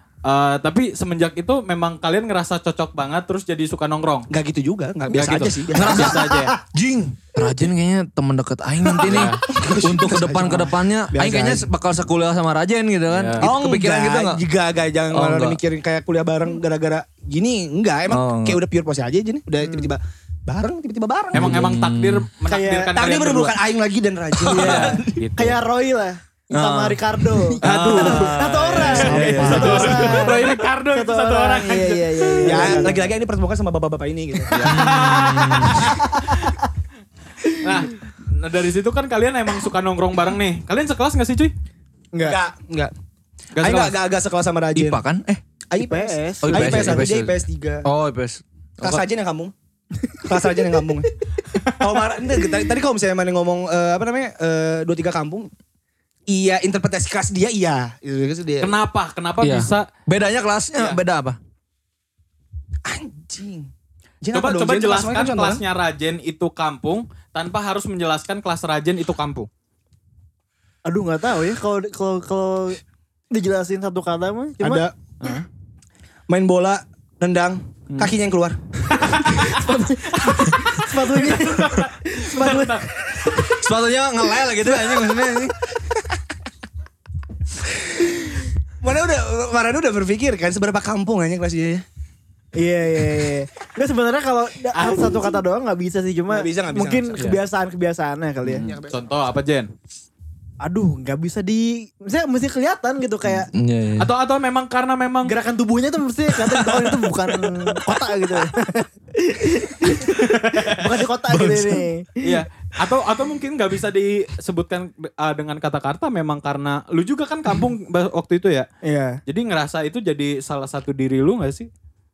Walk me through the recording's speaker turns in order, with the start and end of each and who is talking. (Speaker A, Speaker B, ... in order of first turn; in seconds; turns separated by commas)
Speaker A: 0.2-4.3, Speaker B: 4.3-6.2, Speaker A: 5.1-6.5, Speaker C: 5.7-14.4, Speaker D: 6.0-6.6, Speaker A: 9.0-9.4, Speaker B: 9.0-11.7, Speaker A: 13.1-13.5, Speaker B: 13.4-21.5, Speaker C: 15.1-15.6, Speaker C: 18.1-18.6, Speaker D: 19.6-19.9, Speaker A: 21.3-23.5, Speaker C: 21.3-22.3, Speaker D: 22.5-22.9, Speaker B: 22.9-24.9, Speaker C: 24.4-25.2, Speaker D: 24.4-33.0, Speaker A: 24.6-25.6, Speaker C: 26.5-30.3, Speaker A: 27.6-32.9, Speaker B: 28.9-30.0, Speaker B: 32.4-34.7, Speaker D: 34.5-36.7, Speaker A: 34.5-36.5, Speaker C: 34.5-35.9, Speaker D: 37.4-37.8, Speaker A: 37.5-41.5, Speaker D: 42.1-42.4, Speaker B: 42.2-42.9, Speaker A: 43.5-44.0, Speaker B: 43.6-45.0, Speaker C: 44.7-45.4, Speaker B: 45.7-47.9, Speaker D: 45.8-46.9, Speaker C: 46.4-48.4, Speaker B: 48.8-49.5, Speaker B: 50.2-51.1, Speaker B: 51.8-55.5, Speaker B: 56.3-58.8, Speaker A: 58.6-59.9, Speaker C: 59.4-61.4, Speaker B: 62.8-63.7, Speaker B: 64.2-65.6, Speaker A: 64.3-69.5, Speaker D: 70.8-72.8, Speaker D: 73.3-74.8, Speaker B: 74.6-74.9, Speaker B: 76.3-78.6, Speaker A: 78.9-82.9, Speaker D: 79.2-83.6, Speaker C: 83.5-85.5, Speaker D: 84.7-85.2, Speaker B: 88.8-91.8, Speaker D: 92.5-98.6, Speaker A: 94.7-95.2, Speaker B: 96.3-97.2, Speaker A: 98.5-99.7, Speaker B: 98.5-99.0, Speaker D: 100.6-103.5, Speaker C: 103.4-104.1, Speaker A: 104.0-105.3, Speaker D: 105.2-112.4, Speaker A: 110.1-110.8, Speaker C: 111.3-111.8, Speaker A: 112.2-118.7, Speaker D: 118.8-119.2, Speaker A: 119.2-121.7